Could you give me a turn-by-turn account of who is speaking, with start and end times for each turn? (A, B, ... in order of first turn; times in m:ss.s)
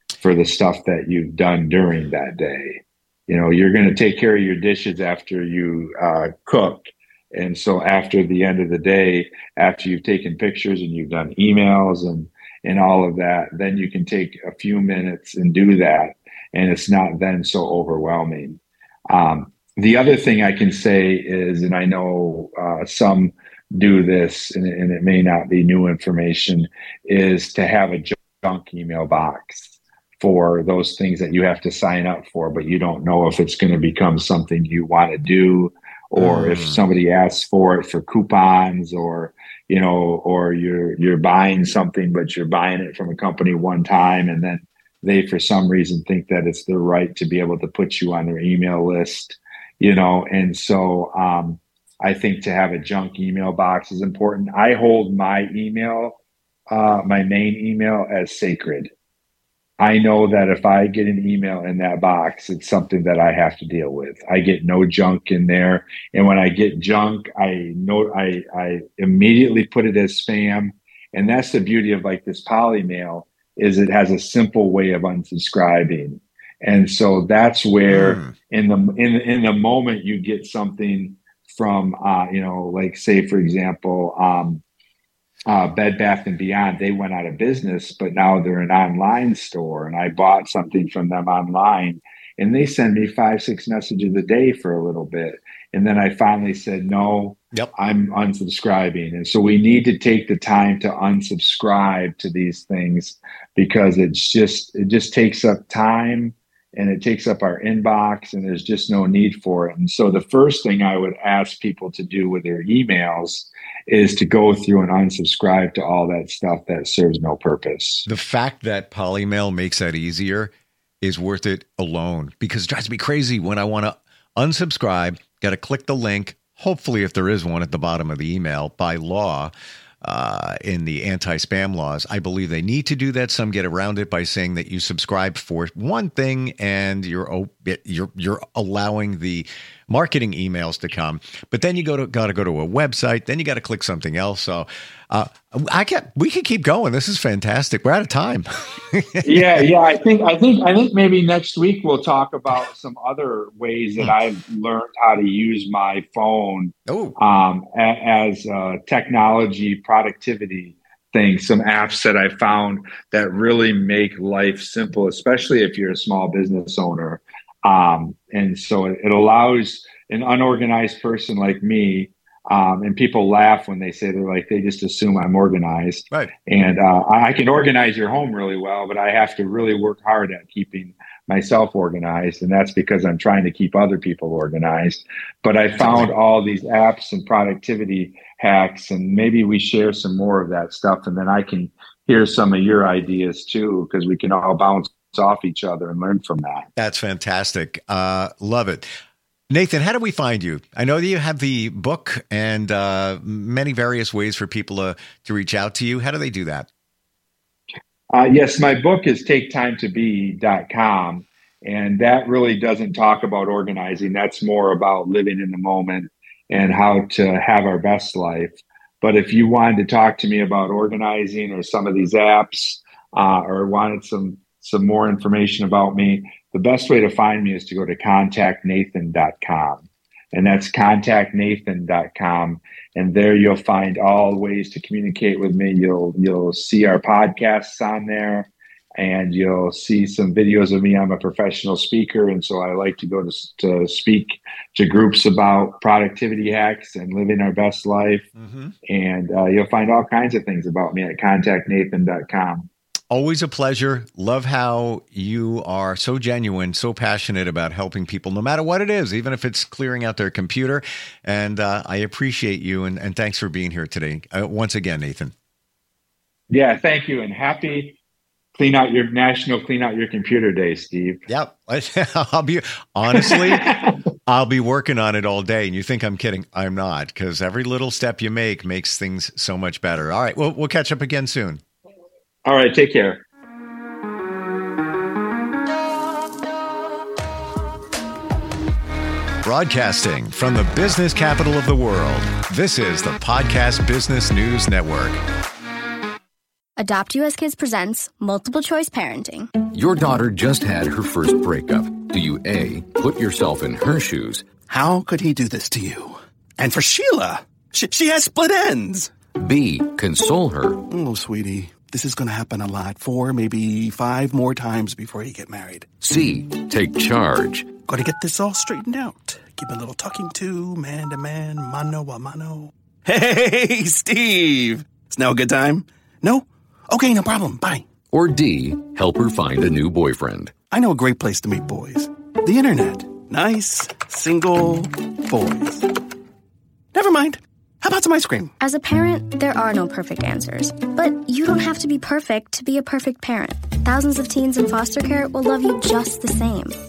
0:00.2-0:56.2 A
0:36.2-0:36.8 B
0:56.7-0:58.9 A
0:59.8-1:24.6 A
1:17.9-1:18.3 B
1:25.5-1:58.1 A
1:58.1-2:09.5 B
2:10.0-2:29.6 B
2:29.2-3:16.7 A
2:36.9-2:37.2 B
3:05.8-3:06.1 B
3:16.8-3:18.9 B
3:19.5-3:26.7 B
3:28.1-4:08.3 A
4:08.4-4:08.7 B
4:08.9-4:12.7 A
4:13.1-4:25.3 B
4:26.5-4:28.0 A
4:28.6-4:31.2 A
4:31.3-4:33.8 B
4:33.1-4:34.0 A
4:34.3-4:41.6 B
4:42.4-4:43.2 A
4:49.4-4:55.2 B
4:56.8-4:59.5 C
4:59.7-5:04.5 D
5:04.7-5:09.1 E
5:09.4-5:10.8 D
5:10.9-5:16.0 E
5:16.0-5:17.8 D
5:17.8-5:27.9 E
5:28.1-5:30.5 D
5:30.7-5:35.9 E
5:36.9-5:38.5 E
5:38.6-5:46.8 C